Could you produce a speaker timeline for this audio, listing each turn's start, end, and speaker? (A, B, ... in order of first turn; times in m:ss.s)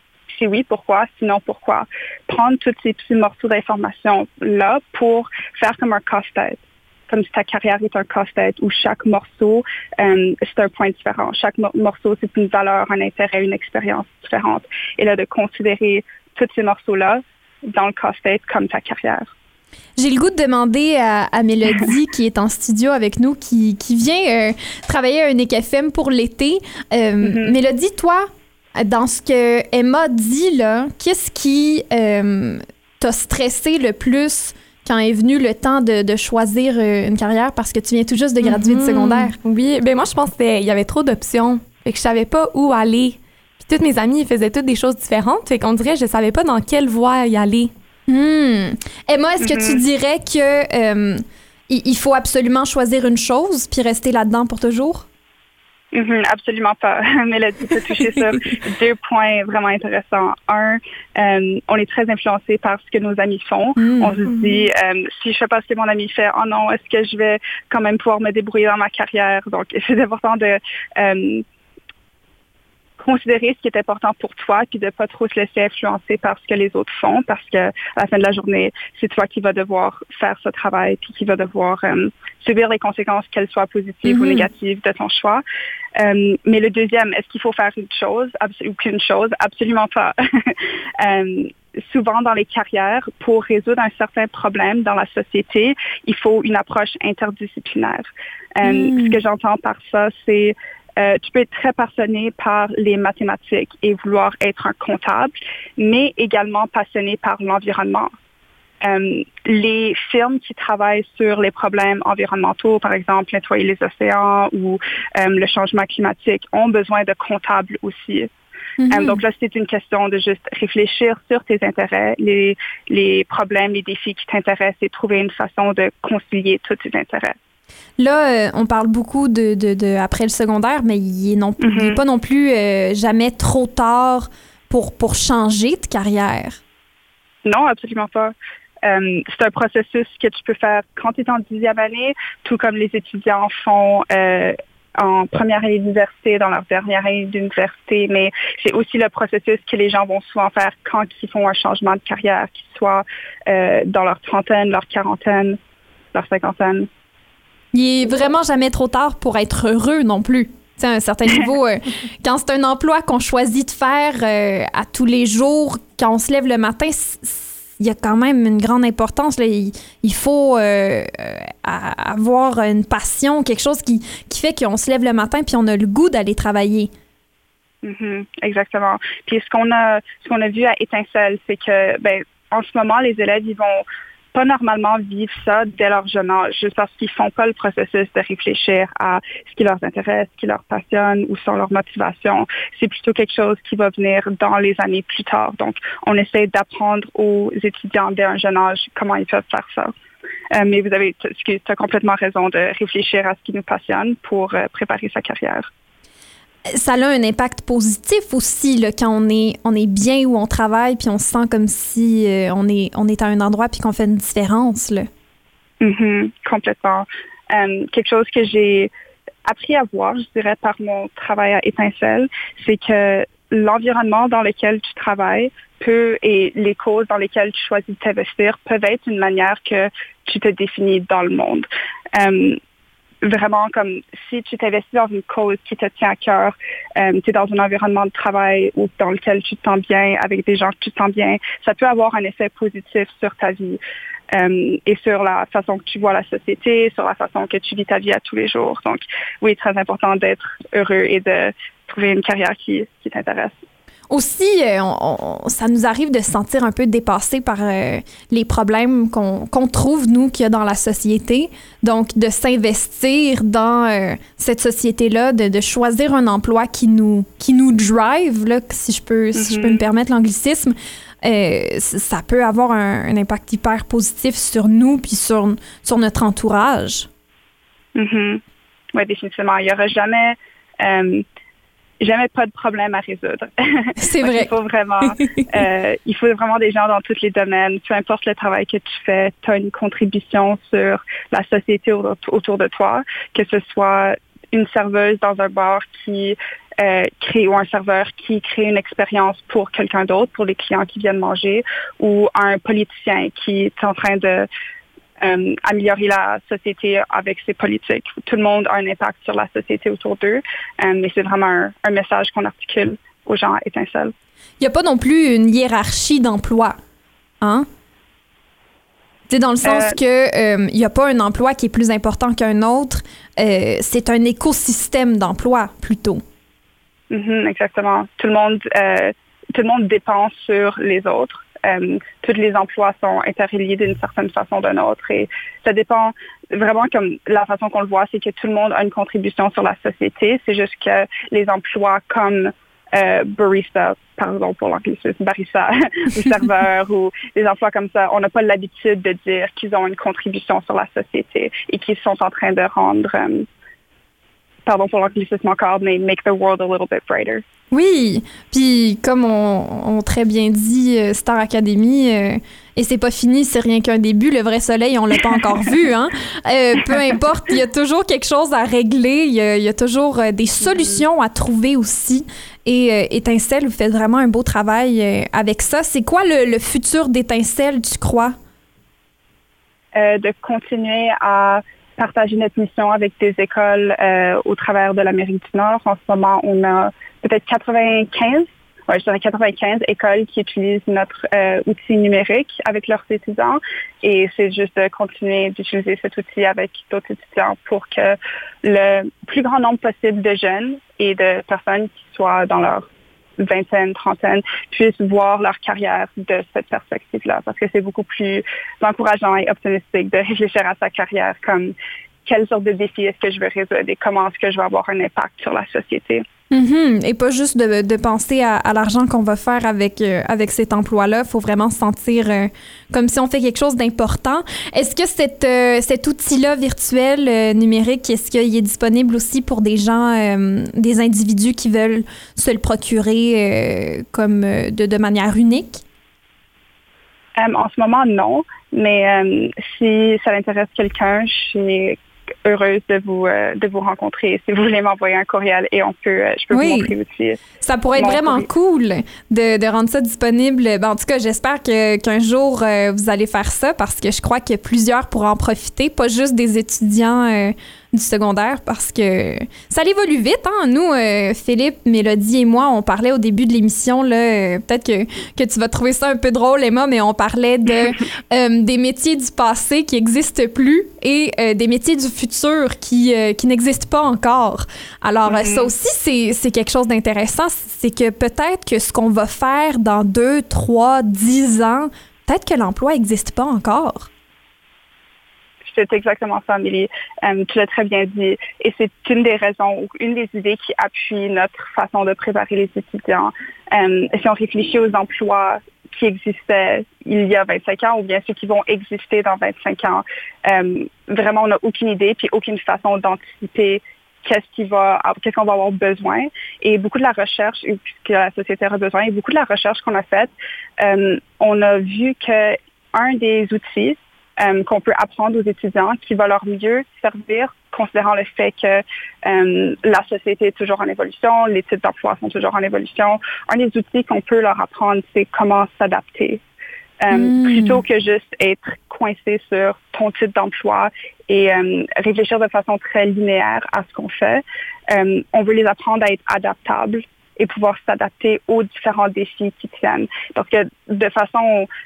0:00.3-0:19.3 A
0:20.0-0:39.4 B
0:27.2-0:27.6 A
0:38.4-0:47.7 C
0:48.1-0:55.1 B
0:49.4-0:49.8 A
0:55.9-1:11.4 A
1:03.8-1:04.4 B
1:13.0-1:25.4 A
1:24.0-1:24.5 B
1:26.0-1:48.1 A
1:38.6-1:39.2 B
1:48.8-1:58.3 A
1:58.8-1:59.2 B
1:58.9-2:07.4 A
2:08.0-2:16.6 B
2:11.6-2:12.0 A
2:17.4-2:35.6 A
2:36.1-2:36.9 A
2:37.7-2:56.9 B
2:57.8-3:20.0 A
3:20.5-3:25.7 A
3:26.7-3:35.1 B
3:35.8-3:38.9 A
3:39.5-3:52.6 A
3:53.2-4:03.8 A
4:04.3-4:13.6 A
4:14.1-4:37.1 B
4:29.4-4:29.8 A
4:38.0-4:38.4 A
4:38.9-4:41.2 A
4:42.0-5:04.5 A
4:44.0-4:44.5 B
5:05.2-5:14.1 A
5:14.6-5:16.8 B
5:17.4-5:17.7 B
5:19.3-5:26.2 B
5:19.6-5:20.0 A
5:27.1-5:53.5 A
5:54.7-5:57.4 A
5:57.7-6:18.4 B
6:20.0-6:42.9 A
6:43.4-6:51.7 A
6:52.3-6:56.2 A
6:56.5-7:15.8 B
7:17.4-7:27.4 A
7:26.5-7:26.9 B
7:27.6-8:04.1 B
7:28.0-7:28.5 A
7:55.3-7:55.7 A
8:05.6-8:46.4 A
8:47.0-9:01.7 A
8:47.1-8:47.8 B